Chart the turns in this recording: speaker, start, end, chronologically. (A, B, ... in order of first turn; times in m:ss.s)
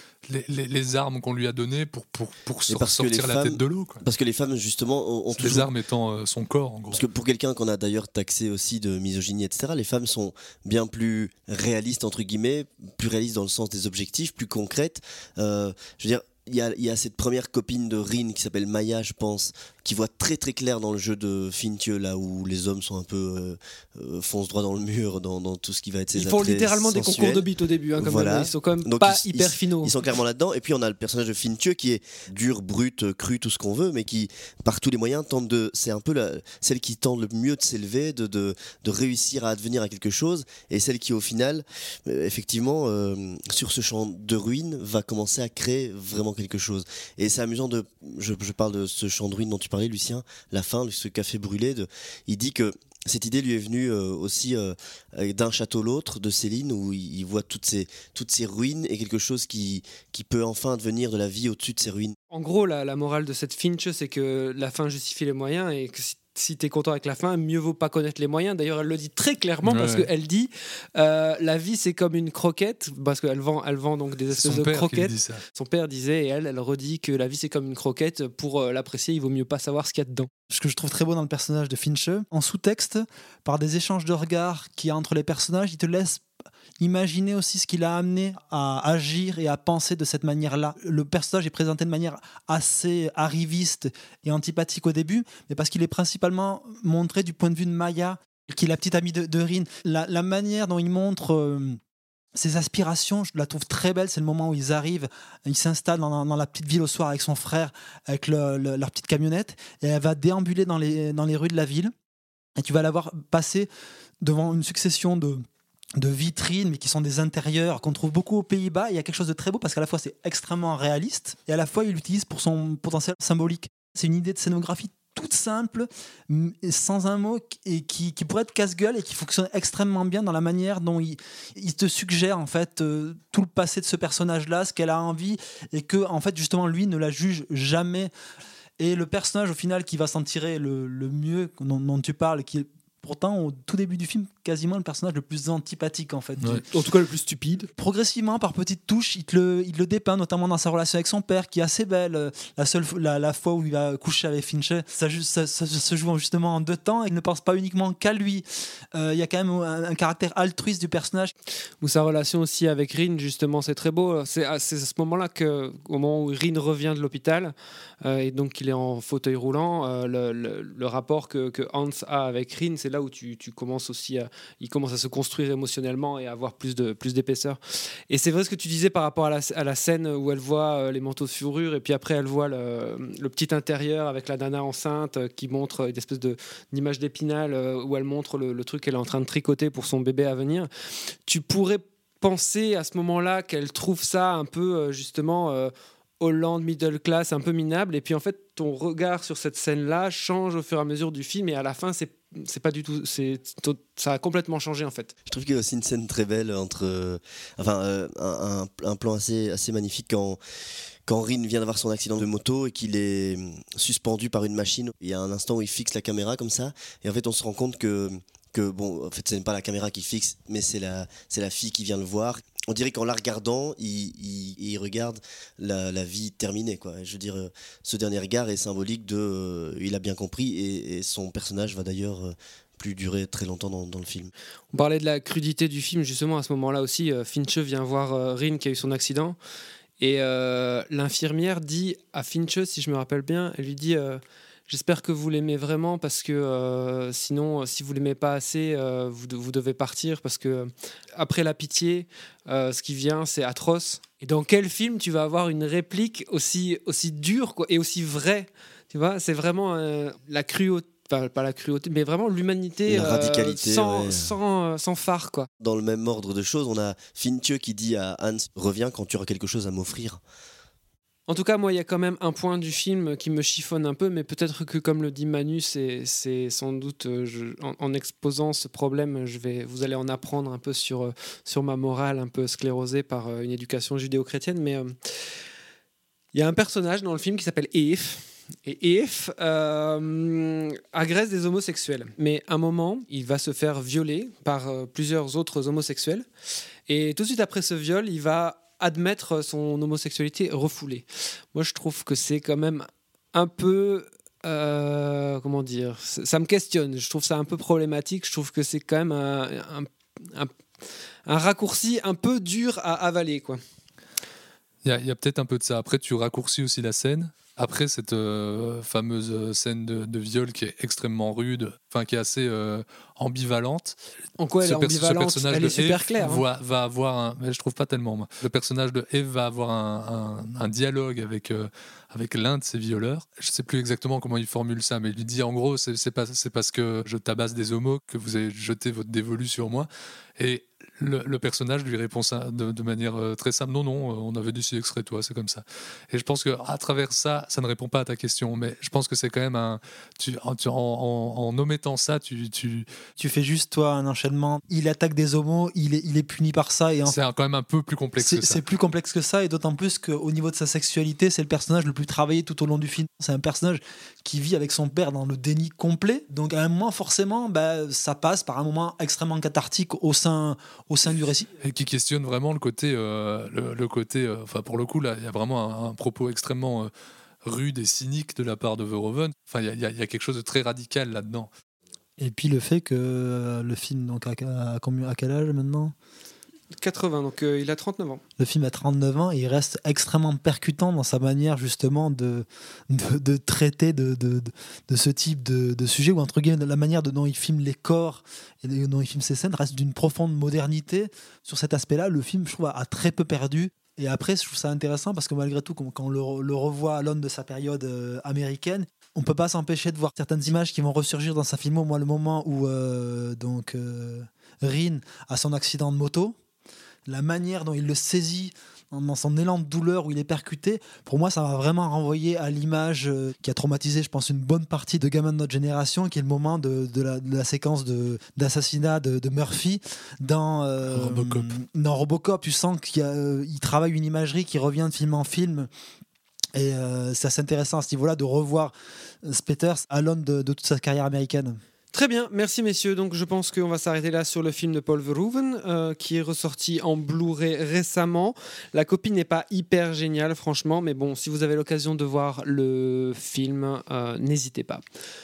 0:00.2-0:04.0 A
0:02.7-0:05.7 B
0:05.3-0:07.0 A
0:06.9-0:27.5 B
0:26.2-0:30.0 C
0:28.0-1:02.2 B
1:02.3-1:20.3 C
1:09.6-1:10.1 A
1:14.3-1:15.4 A
1:20.5-1:26.3 D
1:26.8-1:41.8 D
1:42.4-1:51.9 D
1:52.6-1:53.7 D
1:54.2-1:55.4 D
1:56.0-2:18.1 D
2:18.8-2:26.7 D
2:26.7-2:27.7 C
2:27.8-2:41.3 D
2:41.8-3:10.7 C
3:11.3-3:25.1 C
3:25.3-3:30.4 B
3:31.1-3:54.3 B
3:54.7-3:59.4 C
4:00.0-4:25.5 C
4:22.9-4:24.3 B
4:25.6-4:30.2 B
4:31.3-4:45.0 C
4:46.3-4:56.2 C
4:56.9-5:10.6 C
5:11.3-5:13.6 C
5:14.8-5:24.0 A
5:24.4-5:26.4 C
5:24.6-5:52.9 A
5:53.2-5:57.2 D
5:57.1-5:58.6 A
5:58.2-6:11.5 D
6:11.6-6:16.9 A
6:17.4-6:21.5 A
6:22.2-6:25.9 D
6:26.7-6:28.2 C
6:28.4-6:56.4 D
6:57.1-7:15.7 D
7:10.9-7:11.6 A
7:16.6-7:21.6 D
7:21.9-7:34.8 C